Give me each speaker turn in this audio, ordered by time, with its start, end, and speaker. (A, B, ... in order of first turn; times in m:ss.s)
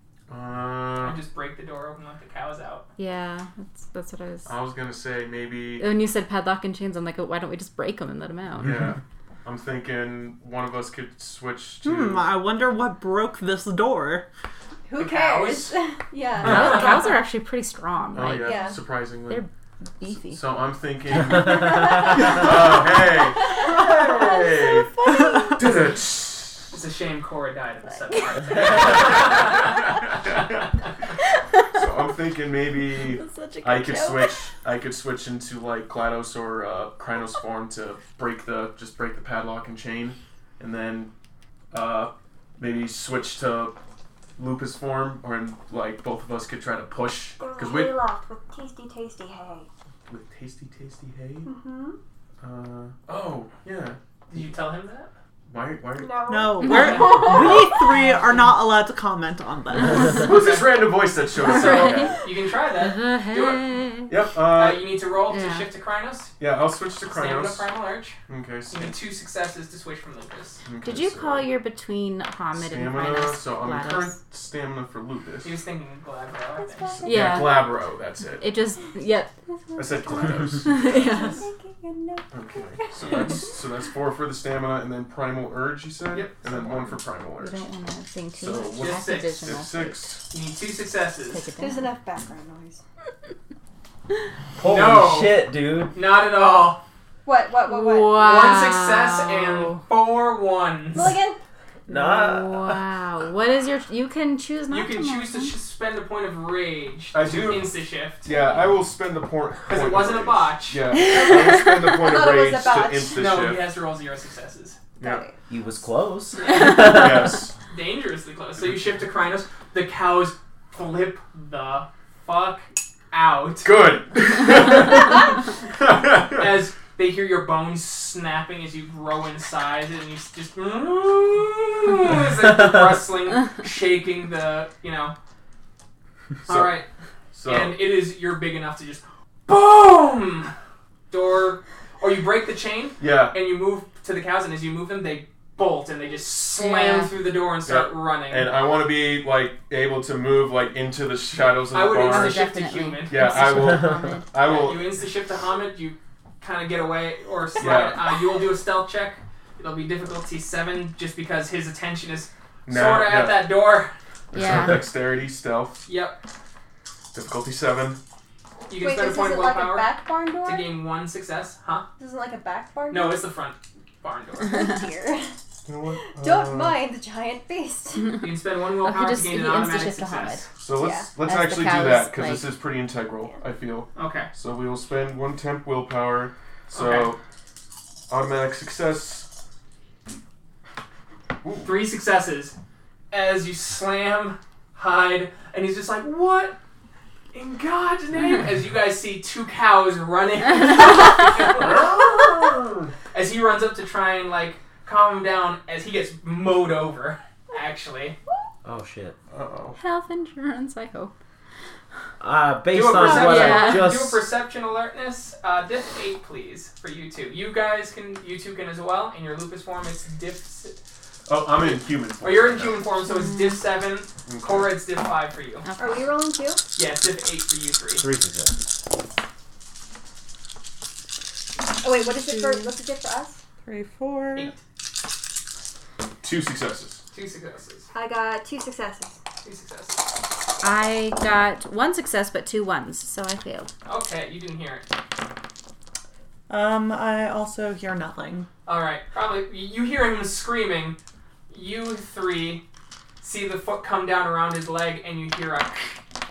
0:00.3-0:01.2 A
0:01.0-0:02.8 B
0:03.0-0:04.5 C
0:04.4-0:05.9 A
0:05.8-0:08.8 C
0:08.6-0:12.3 A
0:11.8-0:14.2 D
0:14.9-0:17.1 E
0:15.0-0:15.8 B
0:16.4-0:20.4 C
0:16.4-0:16.8 A
0:16.5-0:17.0 B
0:18.1-0:19.5 A
0:18.4-0:18.8 E
0:20.1-0:26.7 A
0:21.6-0:25.8 E
0:26.7-0:29.7 B
0:27.9-0:29.6 E
0:28.5-0:30.6 A
0:31.7-0:41.1 A
0:32.8-0:34.5 E
0:41.7-0:43.8 A
0:44.4-0:48.0 A
0:47.4-0:49.7 E
0:50.1-0:51.5 A
0:51.4-0:52.0 E
0:52.4-0:54.0 A
0:54.3-0:55.1 B
0:55.5-0:56.3 A
0:55.9-0:58.0 E
0:56.3-1:00.3 D
0:56.6-0:58.3 C
0:57.3-0:57.7 A
1:00.0-1:02.2 A
1:00.3-1:00.8 B
1:01.3-1:02.2 C
1:01.4-1:03.6 B
1:02.8-1:04.2 C
1:04.1-1:04.9 A
1:04.5-1:06.3 B
1:05.3-1:05.7 C
1:06.4-1:07.7 A
1:07.1-1:08.2 B
1:08.3-1:09.0 A
1:08.7-1:10.6 B
1:10.6-1:11.5 A
1:10.8-1:14.2 C
1:12.5-1:15.5 A
1:15.4-1:17.0 B
1:16.6-1:17.5 E
1:17.0-1:17.8 C
1:17.0-1:18.5 A
1:18.4-1:19.4 C
1:19.7-1:23.5 E
1:19.8-1:21.0 A
1:20.6-1:21.4 C
1:20.9-1:21.4 B
1:22.3-1:27.6 A
1:26.1-1:26.9 B
1:27.4-1:30.2 C
1:28.4-1:30.2 A
1:28.8-1:29.3 B
1:30.3-1:31.5 B
1:31.3-1:31.9 C
1:31.6-1:32.8 E
1:34.6-1:35.9 F
1:34.6-1:35.4 B
1:35.9-1:36.8 B
1:37.2-1:38.2 E
1:37.6-1:39.8 C
1:38.1-1:41.1 B
1:40.9-1:41.4 E
1:41.9-1:42.9 F
1:41.9-1:45.5 C
1:44.7-1:48.4 B
1:47.1-1:53.6 A
1:49.7-1:50.8 B
1:51.0-1:53.2 E
1:53.1-1:54.8 B
1:55.0-1:55.2 A
1:55.0-1:55.4 E
1:55.5-1:57.4 F
1:56.3-1:56.9 B
1:56.6-1:57.5 A
1:57.7-2:03.7 B
2:03.6-2:06.5 A
2:06.4-2:15.1 B
2:16.4-2:16.8 A
2:16.4-2:16.9 B
2:17.3-2:17.8 A
2:17.4-2:20.5 B
2:21.1-2:28.5 B
2:23.0-2:23.4 A
2:26.5-2:27.1 C
2:27.6-2:35.0 A
2:31.7-2:33.5 B
2:31.9-2:34.4 C
2:34.4-2:43.9 B
2:37.6-2:38.0 A
2:42.6-2:43.5 A
2:44.3-2:44.8 C
2:44.3-2:45.8 A
2:45.8-2:46.2 B
2:47.1-2:48.0 A
2:48.7-2:51.9 B
2:48.7-2:50.7 E
2:52.0-2:53.2 E
2:52.9-2:54.7 B
2:54.4-2:55.3 E
2:55.6-2:56.8 A
2:56.0-2:58.2 E
2:58.2-3:00.4 B
2:58.8-3:00.5 C
3:00.6-3:07.2 A
3:00.8-3:01.1 E
3:01.2-3:02.5 C
3:03.9-3:04.3 B
3:06.7-3:07.1 B
3:08.1-3:09.3 A
3:11.4-3:11.7 A
3:11.6-3:12.5 B
3:13.1-3:16.6 B
3:17.3-3:22.2 B
3:21.5-3:22.9 A
3:23.1-3:28.2 B
3:28.6-3:29.2 F
3:29.3-3:29.8 A
3:29.7-3:31.1 C
3:32.2-3:34.2 F
3:32.7-3:40.8 B
3:33.0-3:33.9 C
3:41.3-3:42.9 A
3:42.2-3:45.6 B
3:43.0-3:43.6 C
3:44.2-3:44.8 A
3:45.6-3:46.1 C
3:45.8-3:46.6 E
3:46.8-3:48.0 B
3:48.0-3:48.6 F
3:51.8-3:53.4 E
3:52.1-3:52.7 C
3:53.6-3:54.5 D
3:54.3-3:54.6 B
3:56.2-3:57.0 A
3:57.1-3:57.9 B
3:57.9-3:59.2 E
3:59.4-4:00.0 B
4:00.6-4:03.7 C
4:03.8-4:04.9 B
4:06.5-4:08.5 D
4:08.6-4:11.0 B
4:11.5-4:12.6 B
4:13.2-4:16.0 B